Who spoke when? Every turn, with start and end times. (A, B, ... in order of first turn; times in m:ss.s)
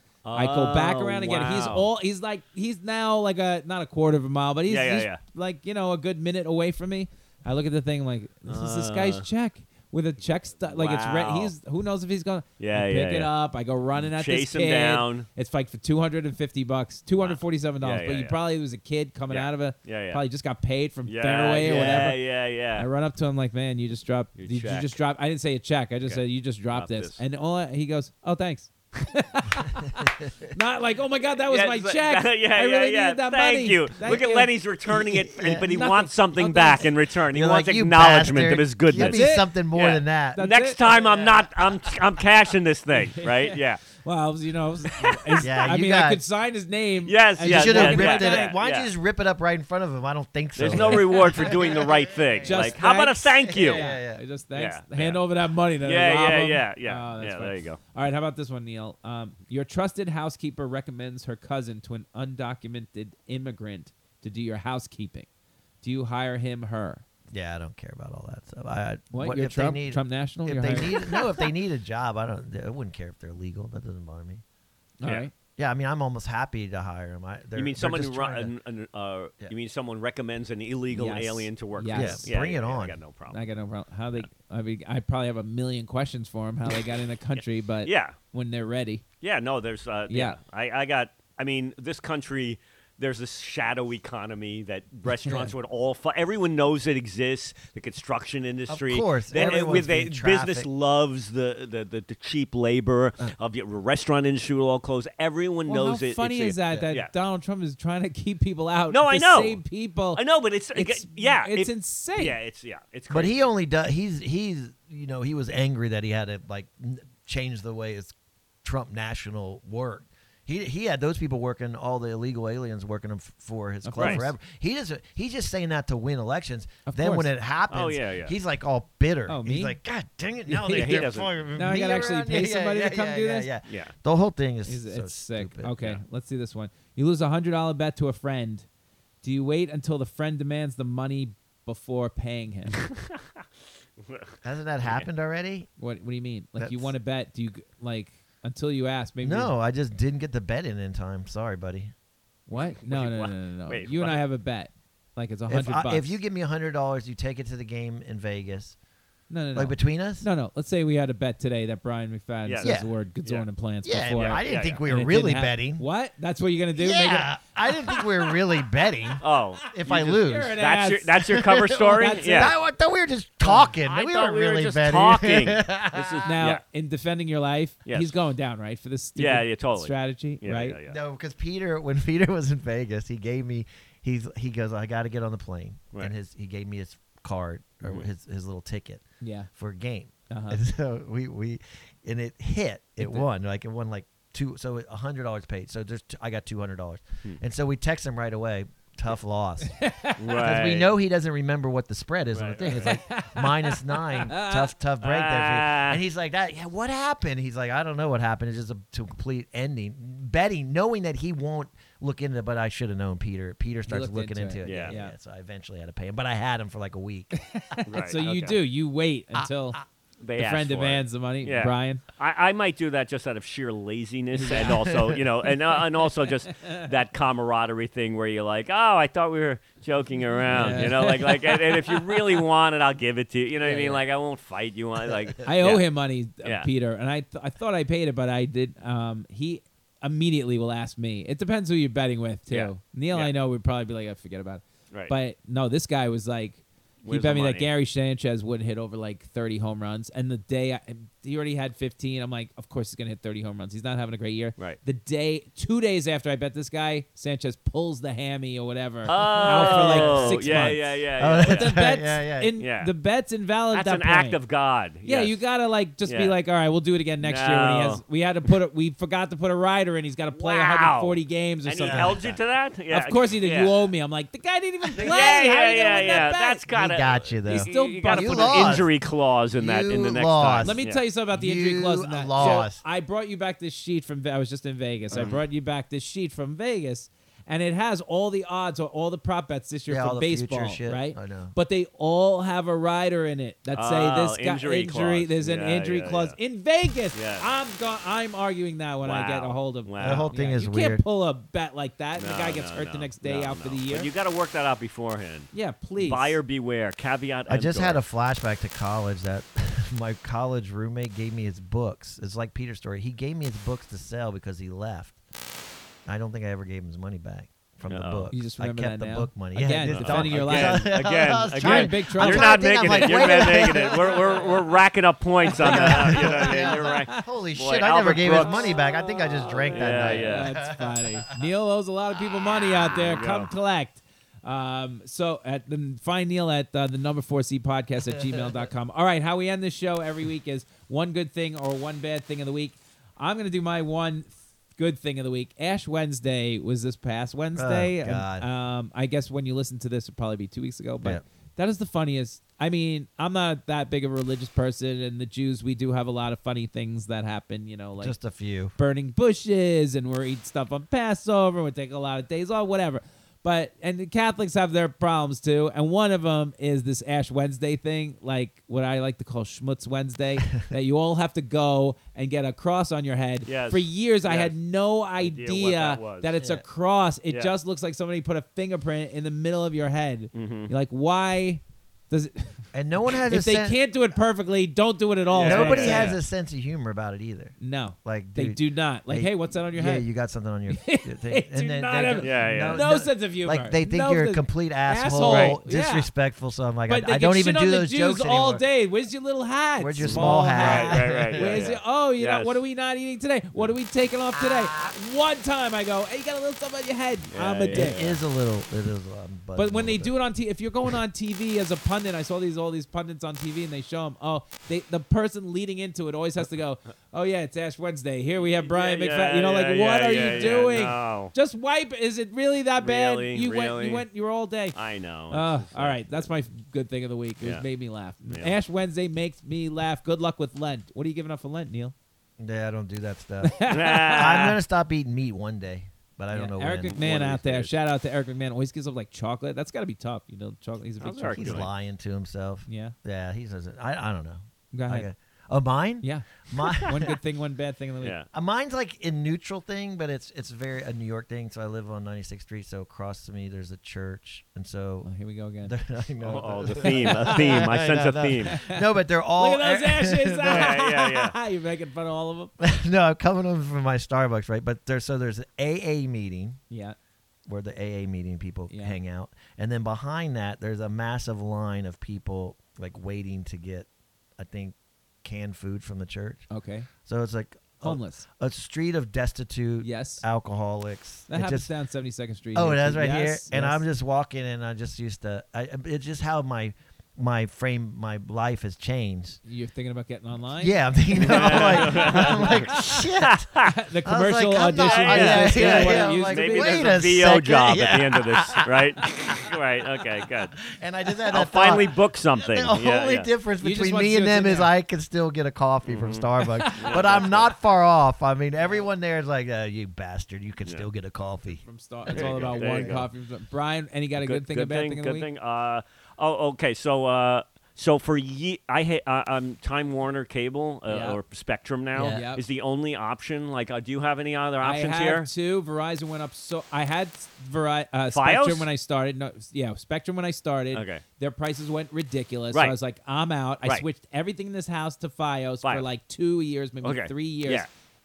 0:00.2-0:01.9 A
0:00.3-0:22.2 B
0:04.7-0:05.2 A
0:08.5-0:09.2 A
0:10.6-0:11.5 A
0:12.6-0:13.3 A
0:13.9-0:15.3 A
0:17.2-0:18.4 A
0:19.3-0:20.2 A
0:21.0-0:22.9 A
0:22.8-0:34.5 B
0:24.4-0:25.0 A
0:26.7-0:27.2 A
0:31.4-0:43.8 A
0:35.0-0:40.4 C
0:35.7-0:36.7 B
0:38.9-0:39.5 B
0:40.3-0:40.8 B
0:42.9-0:48.5 B
0:45.0-0:45.4 A
0:45.4-0:46.2 C
0:47.0-0:48.9 A
0:47.4-0:52.7 C
0:50.6-0:53.8 A
0:50.7-0:51.0 B
0:52.4-1:05.3 B
0:53.5-0:54.2 C
0:54.5-0:55.2 A
0:55.8-0:57.8 A
1:05.8-1:07.0 B
1:07.3-1:14.4 C
1:09.1-1:11.2 B
1:15.0-1:15.3 B
1:15.6-1:18.5 C
1:17.6-1:23.4 A
1:20.9-1:22.3 B
1:21.9-1:23.0 C
1:23.3-1:29.0 B
1:27.3-1:28.2 A
1:29.2-1:47.1 A
1:30.1-1:30.4 B
1:35.2-1:35.5 B
1:38.7-1:40.7 C
1:45.7-1:50.2 B
1:48.9-1:49.6 A
1:50.1-1:53.4 A
1:50.7-1:52.4 B
1:53.1-1:58.1 C
1:58.6-2:15.8 C
2:03.8-2:04.3 B
2:04.0-2:04.2 A
2:06.9-2:07.3 B
2:07.7-2:08.3 A
2:09.3-2:09.8 B
2:10.5-2:13.5 B
2:10.7-2:11.3 A
2:13.7-2:13.9 A
2:14.7-2:18.6 B
2:19.2-2:22.8 B
2:22.8-2:23.2 A
2:24.0-2:25.1 A
2:24.4-2:25.7 C
2:25.8-2:29.5 B
2:26.6-2:26.9 C
2:29.2-2:31.9 C
2:32.5-2:36.2 B
2:32.8-2:34.2 A
2:35.5-2:38.8 C
2:39.3-2:47.3 B
2:39.5-2:40.2 C
2:42.4-2:43.4 A
2:42.6-2:42.9 C
2:43.8-2:45.8 C
2:44.4-2:44.8 A
2:46.8-2:50.6 C
2:49.2-2:52.5 A
2:49.8-2:51.2 B
2:51.3-2:56.3 C
2:51.9-2:52.6 B
2:53.4-2:56.6 A
2:56.3-3:00.8 B
2:57.8-2:58.2 A
2:59.2-3:01.0 A
3:00.9-3:37.5 C
3:07.8-3:08.1 A
3:09.2-3:09.5 B
3:10.3-3:10.6 B
3:13.0-3:13.2 B
3:19.6-3:20.4 B
3:20.2-3:20.9 A
3:22.3-3:23.0 A
3:22.6-3:24.7 B
3:25.0-3:26.0 A
3:33.9-3:35.1 B
3:34.6-3:35.0 A
3:37.3-3:39.8 B
3:37.9-3:38.6 A
3:40.2-3:55.8 A
3:40.4-3:42.0 B
3:44.3-3:44.8 B
3:44.6-3:45.2 C
3:50.5-3:50.8 C
3:50.5-3:51.9 B
3:53.6-3:54.0 B
3:55.4-4:24.4 B
3:56.4-3:56.7 A
4:02.5-4:03.3 A
4:07.0-4:07.7 A
4:19.1-4:21.8 A
4:19.4-4:22.5 C
4:22.6-4:22.9 A
4:23.7-4:25.4 A
4:25.0-4:32.2 B
4:26.0-4:26.3 A
4:27.2-4:28.0 A
4:30.3-4:33.8 A
4:31.8-4:32.4 C
4:32.9-4:36.6 B
4:35.0-4:41.0 A
4:36.7-4:38.9 C
4:37.5-4:38.8 B
4:39.6-4:40.8 C
4:40.6-5:04.1 B
4:41.3-4:42.8 C
4:45.1-4:45.4 A
4:49.9-4:51.5 C
4:53.7-4:56.4 A
4:57.1-4:57.5 A
4:59.0-5:00.3 A
5:00.0-5:01.0 C
5:02.2-5:08.0 A
5:05.5-5:06.4 B
5:07.5-5:15.2 C
5:16.0-5:24.6 C
5:17.9-5:18.3 A
5:18.3-5:20.9 B
5:19.9-5:28.7 A
5:21.5-5:24.0 B
5:25.4-5:27.2 B
5:25.6-5:31.3 C
5:29.4-5:58.2 B
5:29.7-5:30.5 A
5:32.9-5:33.5 A
5:47.5-5:48.5 C
5:58.0-5:58.7 C
5:58.7-6:26.1 B
6:13.4-6:14.5 A
6:15.2-6:16.3 A
6:20.3-6:20.7 A
6:22.7-6:23.8 C
6:25.3-6:26.2 A
6:25.4-6:38.6 C
6:27.6-6:30.1 B
6:30.7-6:36.1 B
6:32.2-6:32.8 A
6:35.2-6:35.6 A
6:36.9-6:48.0 B
6:39.8-6:41.7 C
6:40.0-6:42.6 A
6:47.3-6:48.2 A
6:47.7-6:50.1 C
6:49.6-7:04.8 B
6:58.4-7:01.3 A
7:02.8-7:04.0 A
7:04.7-7:06.3 A
7:05.3-7:11.9 B
7:08.3-7:08.5 A
7:12.4-7:17.7 C
7:13.4-7:14.4 B
7:13.7-7:14.6 A
7:16.3-7:21.7 B
7:21.0-7:21.7 A
7:21.3-7:27.1 C
7:22.7-7:22.9 B
7:24.7-7:25.1 B
7:26.0-7:28.1 B
7:28.0-7:28.3 A
7:28.3-7:35.1 C
7:35.0-7:35.8 B
7:35.6-7:40.7 C
7:36.2-7:38.6 A
7:36.8-7:37.6 B
7:38.5-7:38.8 B
7:39.4-7:42.5 B
7:40.4-7:41.4 A
7:42.6-7:46.6 C
7:46.7-7:47.0 B
7:47.5-7:56.5 C
7:48.7-7:49.0 B
7:56.5-7:56.9 B
7:57.0-8:01.7 C
7:57.8-7:58.2 B
7:59.8-8:00.2 B
8:01.3-8:03.8 B
8:02.5-8:09.4 C
8:09.4-8:12.6 B
8:10.6-8:19.5 C
8:11.2-8:13.7 A
8:13.6-8:17.0 B
8:14.8-8:20.6 A
8:20.6-8:33.0 C
8:21.3-8:23.3 A
8:23.6-8:24.7 B
8:25.8-8:27.5 A
8:26.4-8:27.2 B
8:31.6-8:35.3 B
8:32.1-8:33.1 A
8:34.2-8:45.3 A
8:40.9-8:41.2 B
8:41.9-8:42.2 C
8:42.1-8:42.4 B
8:44.6-8:57.7 B
8:48.1-8:48.7 A
8:50.7-8:51.0 A
8:56.8-8:57.7 A